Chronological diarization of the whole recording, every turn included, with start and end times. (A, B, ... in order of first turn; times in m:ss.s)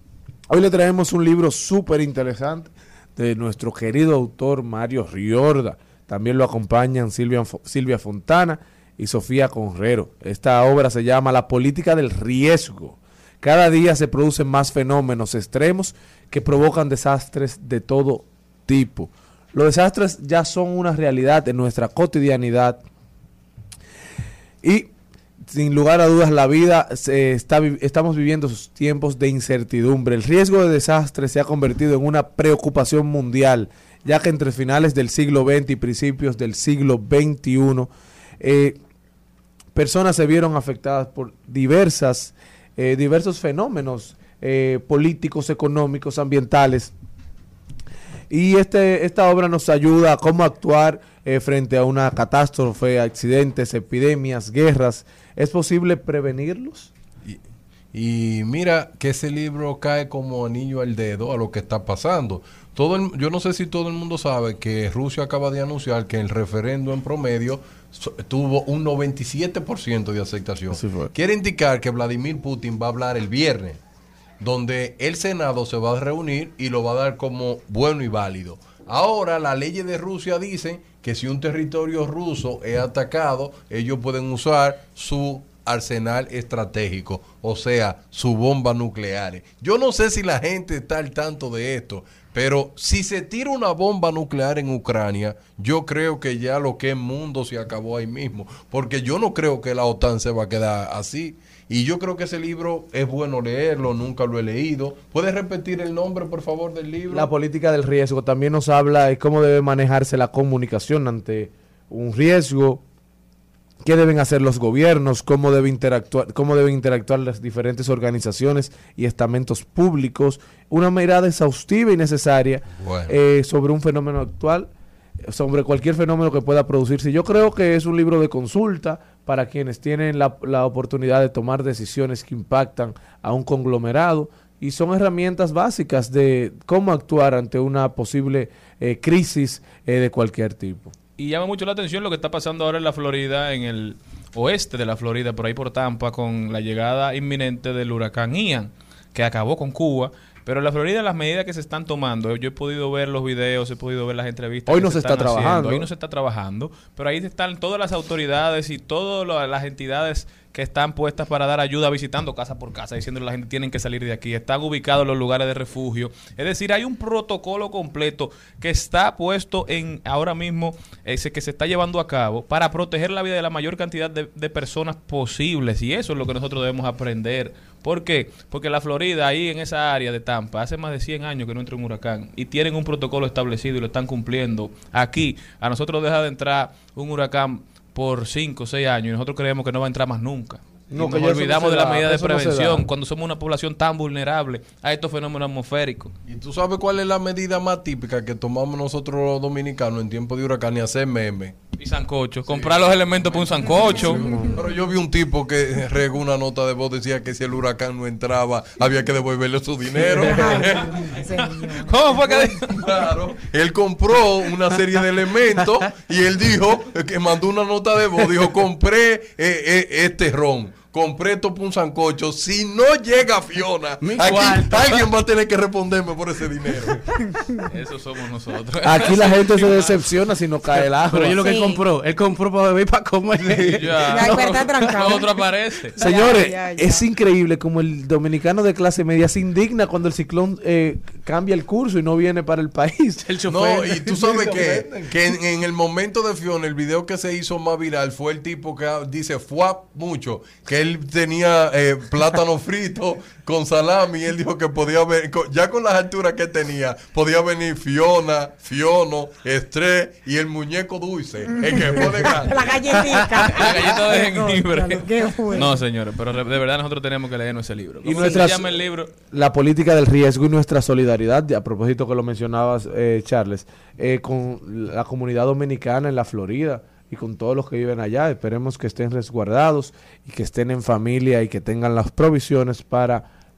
0:00.5-0:22.8 A
0:24.6-0:24.9 A
0:25.5-0:37.9 A
0:38.4-0:38.8 A
0:39.7-0:46.9 A
0:48.3-0:56.9 A
0:57.9-1:13.8 B
1:10.7-1:11.1 A
1:14.4-1:47.3 B
1:47.1-1:52.8 A
1:53.8-2:04.7 A
2:02.8-2:03.1 B
2:05.3-2:20.9 A
2:21.2-3:16.1 C
2:34.7-2:35.9 A
3:10.9-3:12.8 A
3:16.2-3:21.6 B
3:21.8-3:24.2 C
3:22.5-3:31.2 B
3:30.1-3:32.0 D
3:31.4-3:32.9 C
3:32.6-3:47.0 B
3:44.1-3:44.7 E
3:47.6-3:50.0 C
3:48.8-3:51.6 A
3:51.1-3:53.8 E
3:51.4-3:51.8 D
3:53.5-3:56.0 C
3:54.1-3:54.4 A
3:54.1-3:55.4 D
3:56.0-3:57.0 D
3:56.0-4:04.8 A
4:03.5-4:22.8 B
4:21.6-4:25.8 D
4:23.4-4:29.1 C
4:28.0-4:43.2 A